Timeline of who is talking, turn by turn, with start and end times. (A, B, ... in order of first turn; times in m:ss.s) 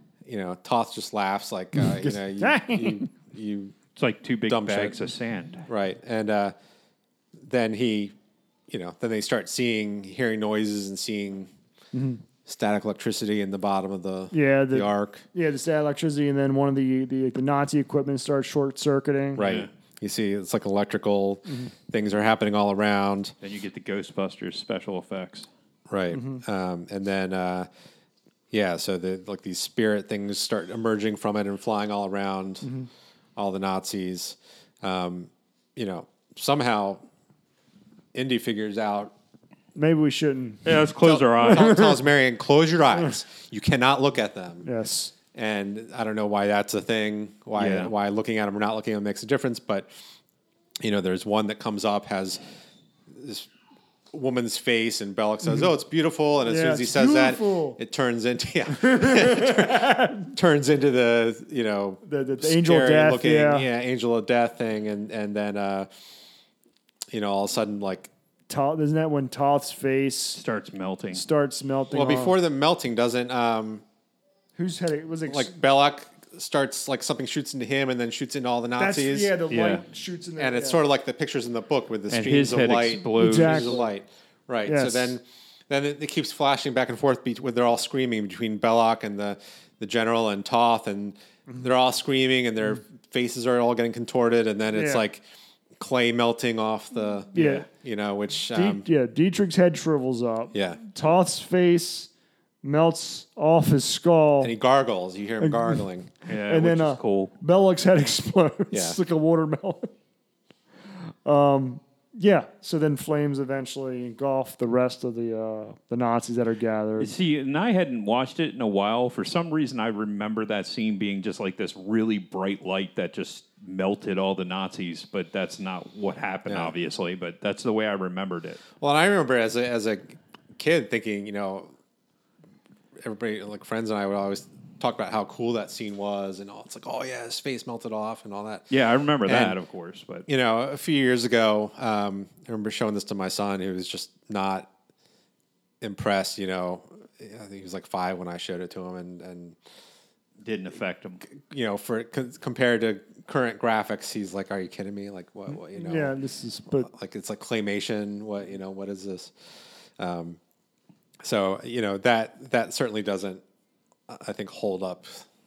0:00.2-0:03.7 A
0:01.8-0:03.1 B
0:04.0-0:05.6 C
0:04.5-0:05.0 A
0:05.7-0:06.5 A
0:07.4-0:08.1 A
0:08.7-0:11.5 A
0:11.9-0:12.2 B
0:12.4-0:15.2 A
0:14.3-0:19.4 B
0:19.3-0:23.3 A
0:19.4-0:19.7 C
0:23.4-0:25.5 C
0:25.9-0:27.7 A
0:26.1-0:26.4 B
0:28.5-0:32.7 A
0:32.6-0:32.9 B
0:33.4-0:37.0 A
0:38.1-0:39.1 A
0:39.8-0:40.8 B
0:40.6-0:42.0 C
0:41.0-0:44.7 A
0:41.4-0:42.0 B
0:44.6-0:45.1 B
0:45.3-0:49.9 A
0:47.6-0:47.9 C
0:50.8-0:52.4 A
0:53.1-0:53.5 A
0:54.1-1:05.9 A
0:56.4-0:57.8 B
0:58.7-1:00.3 B
1:02.0-1:03.7 B
1:07.1-1:08.1 A
1:08.5-1:10.4 B
1:10.4-1:11.2 C
1:11.1-1:12.4 B
1:11.9-1:13.8 A
1:14.6-1:15.5 B
1:15.3-1:19.3 A
1:18.8-1:20.8 B
1:19.5-1:19.8 C
1:20.4-1:35.2 A
1:22.1-1:23.7 C
1:23.1-1:23.9 B
1:24.6-1:25.2 B
1:34.7-1:35.0 B
1:35.8-1:38.8 A
1:37.3-1:37.6 B
1:37.3-1:37.6 C
1:38.5-1:42.1 B
1:40.5-1:40.8 A
1:42.6-1:44.5 B
1:44.4-1:46.1 A
1:45.4-1:45.8 B
1:46.3-1:47.3 C
1:46.3-1:49.9 B
1:48.7-1:49.0 A
1:51.2-1:57.1 B
1:57.0-2:08.6 C
2:06.5-2:06.7 A
2:08.8-2:11.7 A
2:13.0-2:18.7 A
2:18.7-2:20.2 C
2:19.2-2:19.6 A
2:20.3-2:24.7 A
2:25.8-2:29.6 A
2:30.4-2:31.2 C
2:31.4-2:36.1 A
2:35.7-2:36.9 B
2:36.8-2:39.3 A
2:40.0-2:40.4 A
2:41.2-2:43.4 A
2:44.1-2:45.2 A